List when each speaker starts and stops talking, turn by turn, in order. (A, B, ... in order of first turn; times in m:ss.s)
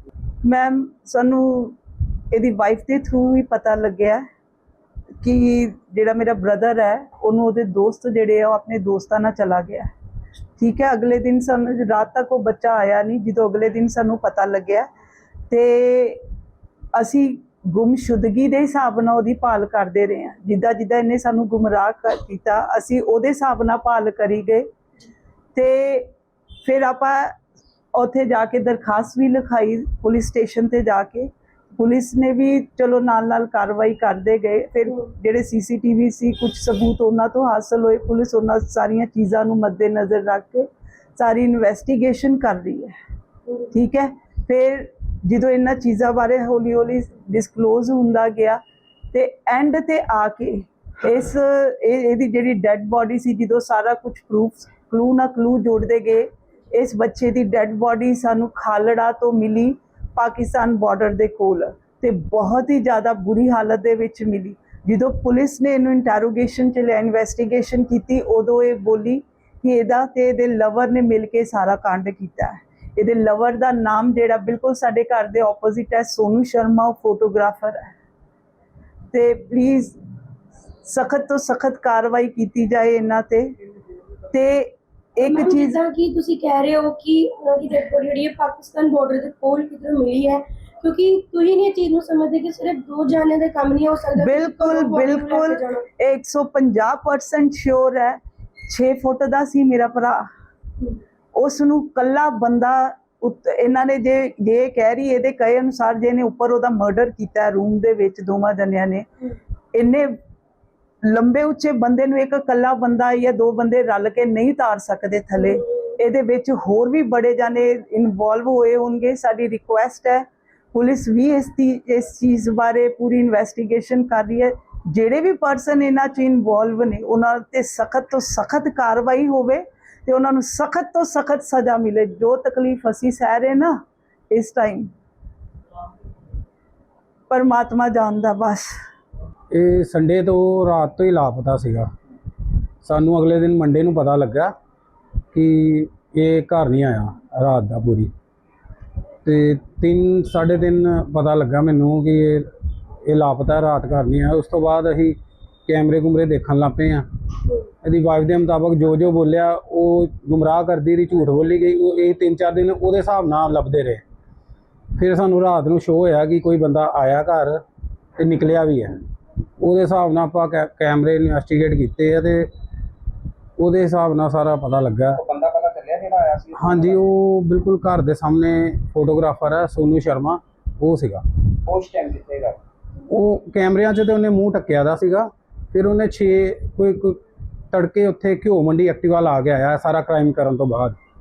0:00.4-0:01.8 A
0:02.3-0:04.2 A
0:05.2-0:09.9 A
0:10.6-0:14.9 A
0:15.5-0:16.2 A
0:16.9-0:24.6 A
0:25.5-0:26.1 A
0:26.6-0:27.3 A
0:27.9-0:42.9 A
0:43.7-0:48.6 A
0:49.1-1:17.9 A
1:19.1-1:20.0 A
1:20.8-1:23.5 A
1:24.3-1:25.8 A
1:25.2-1:35.8 B
1:34.2-1:40.3 A
1:41.3-1:49.0 A
1:49.7-1:50.1 A
1:51.0-2:13.8 A
2:14.3-2:14.9 A
2:17.3-2:18.7 A
2:19.5-2:21.9 C
2:22.8-2:24.5 C
2:25.3-2:28.1 C
2:29.2-2:32.5 C
2:33.1-2:37.0 C
2:37.8-2:44.0 C
2:45.0-2:47.6 C
2:48.2-2:48.9 C
2:49.6-2:52.5 C
2:53.6-2:55.2 C
2:55.1-2:57.0 D
2:56.6-3:01.2 C
3:01.7-3:02.6 D
3:03.1-3:07.2 C
3:07.7-3:11.0 C